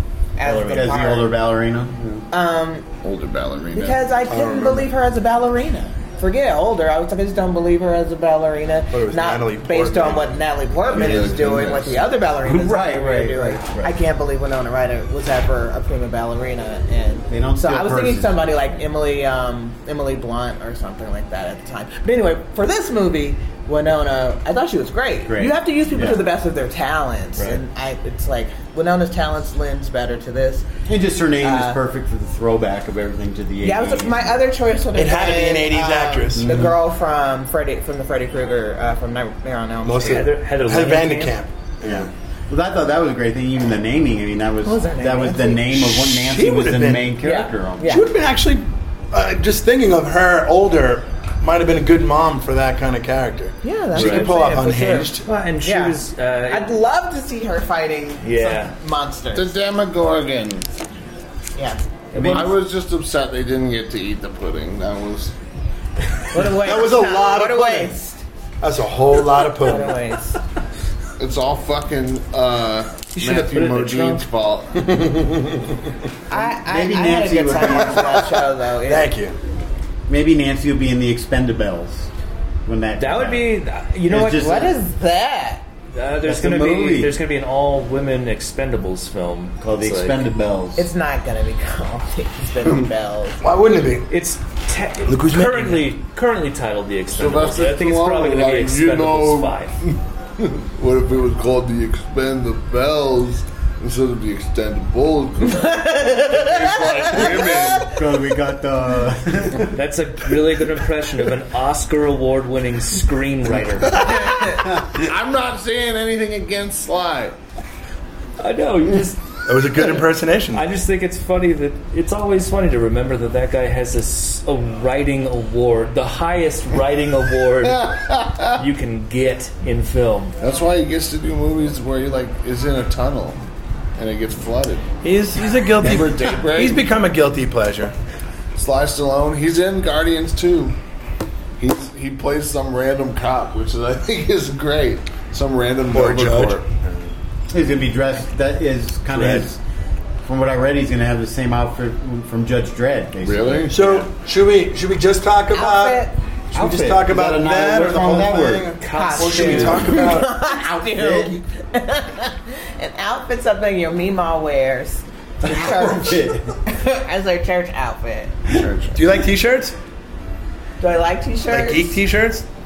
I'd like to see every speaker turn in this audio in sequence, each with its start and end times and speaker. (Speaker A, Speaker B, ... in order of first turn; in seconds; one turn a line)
Speaker A: 0.4-1.4
Speaker B: 0.4-1.0
Speaker C: 0.7-2.3
Speaker A: 2.3-2.9
Speaker D: 3.0-4.1
Speaker A: 3.7-30.7
Speaker E: 4.3-4.9
Speaker E: 8.9-10.4
Speaker E: 10.9-11.2
Speaker D: 10.9-12.1
Speaker C: 12.4-13.9
Speaker C: 17.3-18.7
Speaker C: 25.2-26.2
Speaker C: 30.9-34.4
Speaker A: 31.4-31.8
Speaker A: 33.6-40.2
Speaker E: 35.0-36.6
Speaker C: 36.4-36.8
Speaker E: 39.8-42.1
Speaker B: 40.0-41.4
Speaker C: 41.8-48.0
Speaker A: 44.6-45.7
Speaker E: 45.7-47.1
Speaker A: 47.2-48.1
Speaker E: 47.8-55.3
Speaker A: 53.6-56.0
Speaker B: 54.0-54.3
Speaker B: 55.2-56.7
Speaker A: 56.5-59.5
Speaker B: 58.2-58.7
Speaker D: 59.3-60.7
Speaker B: 62.1-62.6
Speaker C: 62.1-62.5
Speaker D: 62.3-65.3
Speaker A: 66.3-68.2
Speaker E: 66.5-67.9
Speaker E: 68.6-69.9
Speaker A: 69.5-70.4
Speaker D: 71.2-75.2
Speaker B: 73.1-74.2
Speaker C: 76.3-78.3
Speaker A: 76.3-79.1
Speaker E: 78.9-79.4
Speaker C: 80.1-82.1
Speaker C: 82.7-84.7
Speaker B: 83.0-84.6
Speaker A: 84.3-85.6
Speaker B: 85.9-90.2
Speaker C: 86.2-87.2
Speaker C: 89.6-90.9
Speaker A: 90.8-93.4
Speaker E: 93.4-94.1
Speaker B: 94.1-99.8
Speaker E: 95.1-95.8
Speaker D: 97.1-107.9
Speaker A: 105.5-107.9
Speaker C: 107.8-109.8
Speaker B: 109.7-114.0
Speaker D: 113.9-117.4
Speaker A: 114.0-114.4
Speaker B: 118.4-119.2
Speaker E: 119.5-120.6
Speaker B: 120.5-130.3
Speaker D: 127.7-128.6
Speaker D: 130.4-133.4
Speaker D: 134.0-134.9
Speaker E: 135.0-137.9
Speaker D: 135.8-136.8
Speaker D: 138.6-140.8
Speaker D: 141.6-146.6
Speaker E: 145.9-147.1
Speaker C: 147.5-149.6
Speaker E: 149.1-149.4
Speaker C: 150.2-154.1
Speaker D: 153.2-153.8
Speaker E: 153.7-160.3
Speaker A: 155.5-156.2
Speaker C: 156.5-158.8
Speaker B: 158.8-160.0
Speaker A: 158.9-168.3
Speaker C: 160.6-161.4
Speaker C: 165.4-166.6
Speaker D: 168.5-169.0
Speaker E: 168.9-169.8
Speaker A: 170.8-172.0
Speaker E: 171.5-172.4